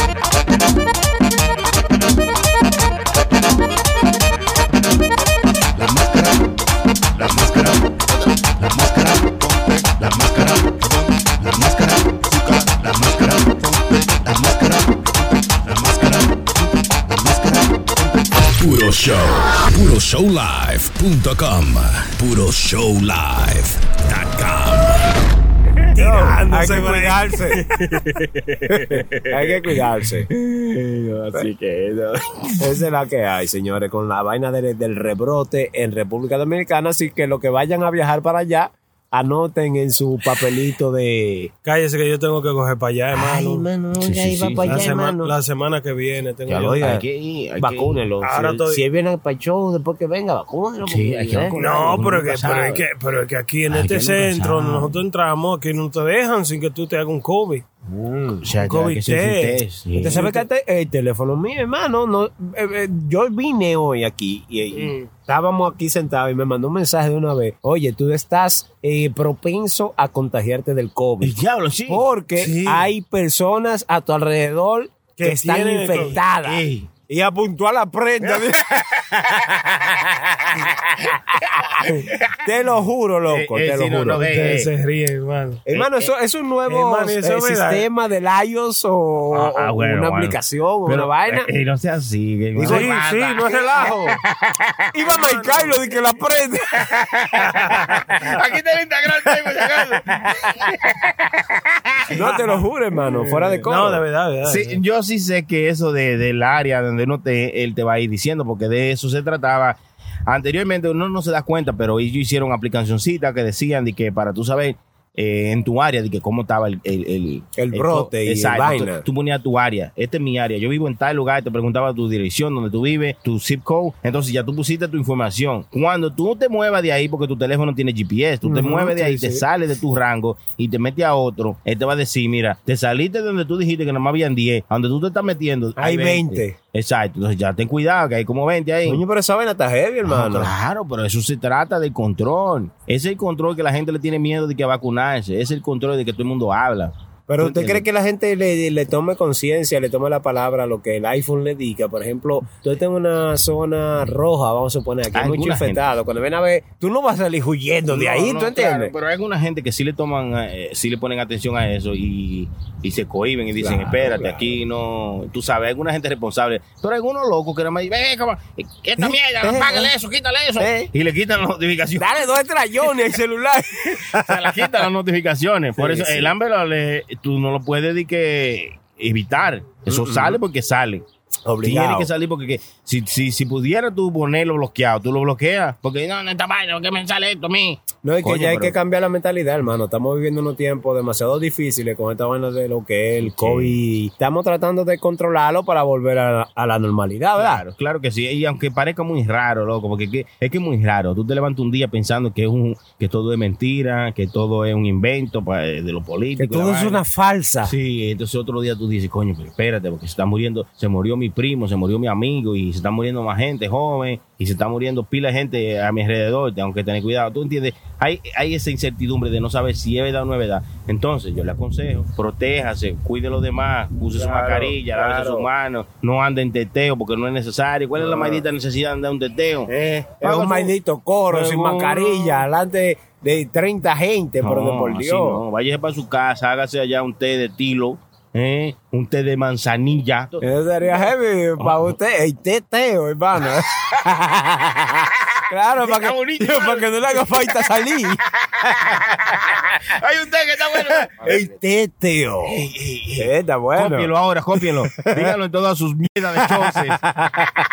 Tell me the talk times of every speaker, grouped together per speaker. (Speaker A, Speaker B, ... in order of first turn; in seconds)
Speaker A: 5.8-6.5, 7.2-7.9, 8.5-18.1
Speaker B: 18.6-25.1
Speaker C: 25.9-28.0, 41.6-43.7, 44.7-46.8, 48.2-48.8, 51.6-57.6, 58.6-59.6, 64.7-65.1, 72.4-72.9, 75.2-76.2, 84.3-85.6, 86.7-87.9, 92.6-94.2, 95.2-95.7, 102.2-102.7, 103.5-104.8
Speaker D: 26.0-27.7, 28.7-30.3, 32.6-41.5, 43.1-45.3, 46.5-47.0, 47.6-51.6, 57.9-58.5, 60.0-71.4, 71.9-78.6, 82.4-84.3, 85.7-91.5, 92.6-92.9, 94.9-96.9, 102.1-104.0, 117.6-119.1, 128.4-129.4, 135.8-136.6, 138.8-140.5, 147.3-158.9, 163.6-164.6, 169.0-169.9, 170.6-170.9, 172.0-174.6, 175.8-176.3, 181.5-182.1, 188.0-197.6, 206.4-207.7, 224.2-225.5, 230.2-235.4, 240.4-248.2, 251.1-252.6, 253.2-254.1, 254.9-255.3, 256.4-257.5
Speaker E: 28.2-29.7, 30.3-32.4, 44.0-44.9, 46.5-48.0, 50.9-52.8, 53.7-55.0, 58.4-60.4, 71.2-72.0, 76.3-76.9, 78.2-82.3, 83.3-84.7, 85.7-86.1, 89.3-95.2, 96.8-102.1, 104.5-139.0, 140.1-147.9, 155.1-155.9, 157.9-172.1, 174.0-181.1, 181.6-188.8, 193.2-193.8, 197.4-207.0, 207.6-230.7, 231.3-232.5, 234.4-240.4, 241.6-242.0, 245.8-247.2, 248.3-251.5, 252.5-257.0